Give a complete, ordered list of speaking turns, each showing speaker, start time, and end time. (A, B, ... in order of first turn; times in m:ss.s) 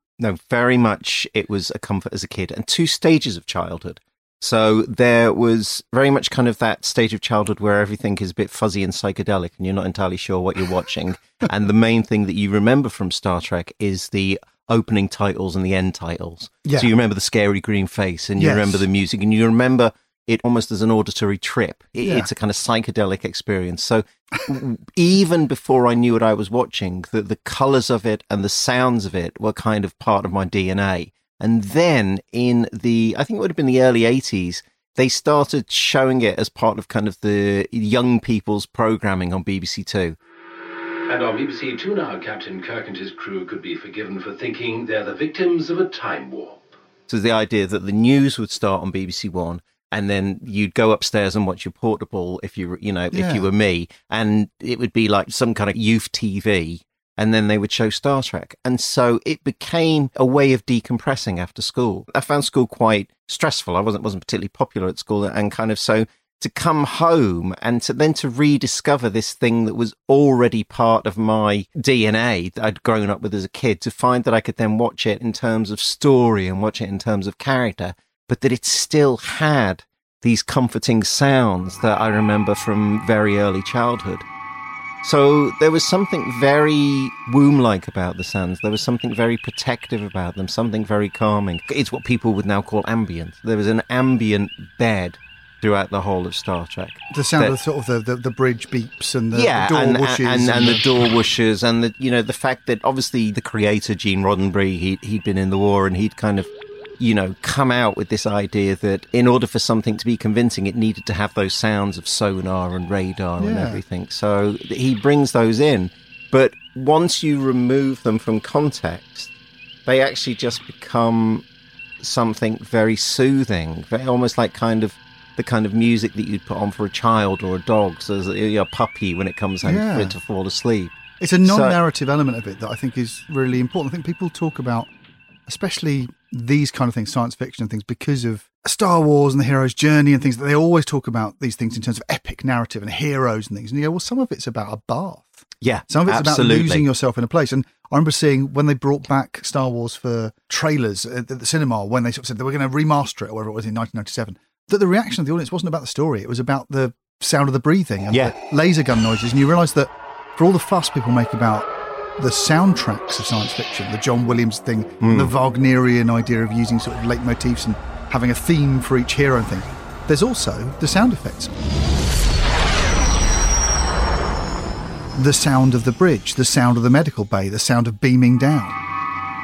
0:00.2-0:40.2 A
0:16.6-0:16.9 B
0:18.4-0:18.8 B
0:22.0-0:22.3 B
0:41.3-0:41.6 C
0:43.5-0:44.5 C
0:46.0-0:46.5 C
0:47.1-1:24.2 A
0:53.1-0:53.5 B
1:25.0-1:37.6 A
1:37.1-1:40.9 B
1:39.3-1:59.3 A
1:53.4-1:53.8 B
1:59.8-2:01.4 A
2:02.0-2:11.8 A
2:09.6-2:10.2 B
2:11.2-2:14.9 B
2:15.5-2:41.7 B
2:25.6-2:26.8 A
2:42.2-2:51.5 B
2:45.0-2:45.3 A
2:55.1-2:58.8 B